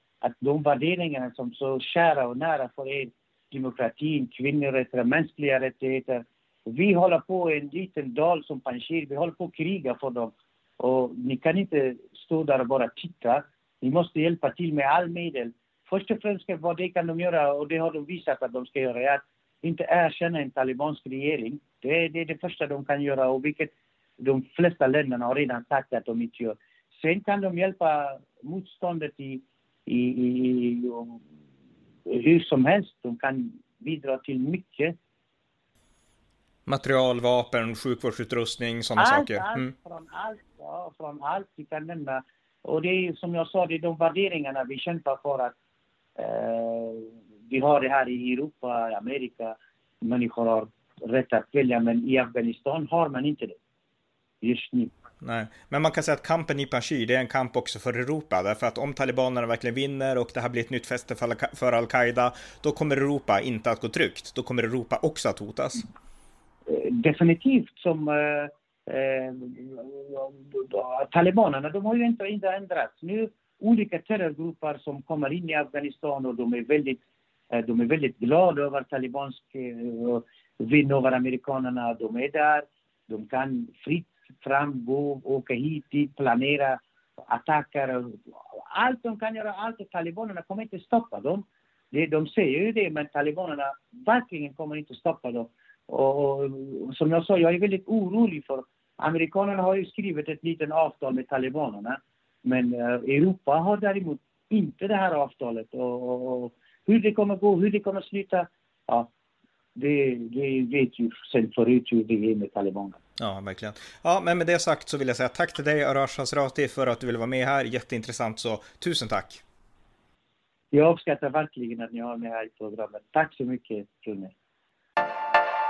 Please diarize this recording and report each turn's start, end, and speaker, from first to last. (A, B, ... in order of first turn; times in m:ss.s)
0:00.2-0:31.2 A
0:32.1-0:35.0 A
0:36.7-0:39.7 B
0:39.0-0:45.6 A
0:46.2-0:53.6 A
0:54.4-0:54.9 A
0:55.2-1:05.9 B
1:06.7-1:49.1 A
1:49.8-1:53.0 A
1:53.2-1:59.4 B
2:00.7-2:04.3 A